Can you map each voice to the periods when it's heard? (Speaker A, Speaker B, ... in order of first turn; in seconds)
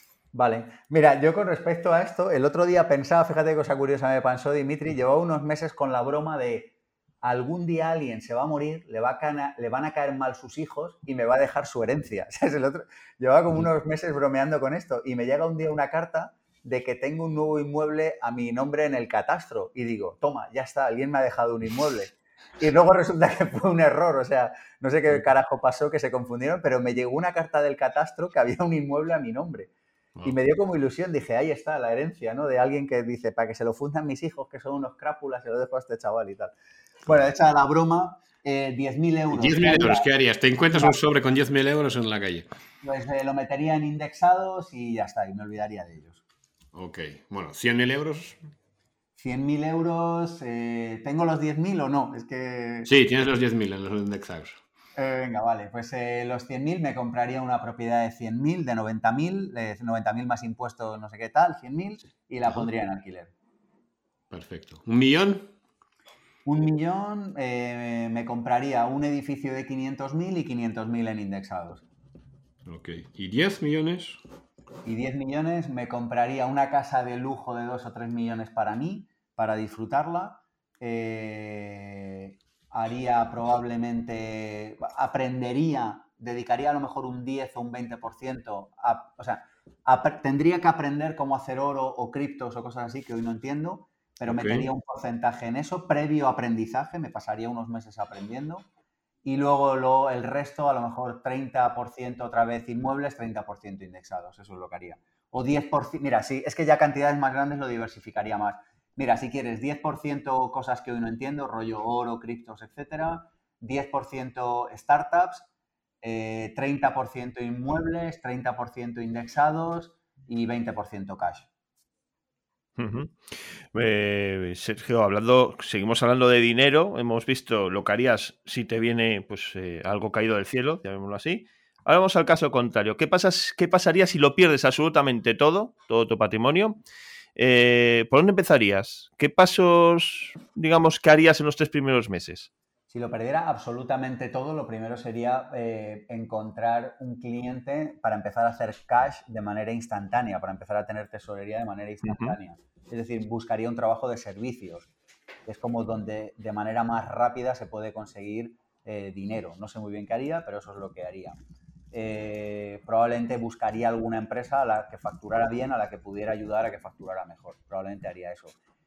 Speaker A: 0.3-29.7, 30.2-36.5, 37.0-40.1, 42.8-46.2, 49.2-52.9, 55.0-63.3, 66.4-71.8, 74.8-98.7, 99.2-115.5, 116.0-121.5, 142.9-154.9, 155.4-161.4, 161.9-168.5
Speaker B: 39.3-42.5, 46.7-48.4, 52.9-54.6, 64.3-65.5, 72.7-74.2, 94.3-94.7
Speaker C: 122.8-136.8, 137.3-142.5, 152.0-152.3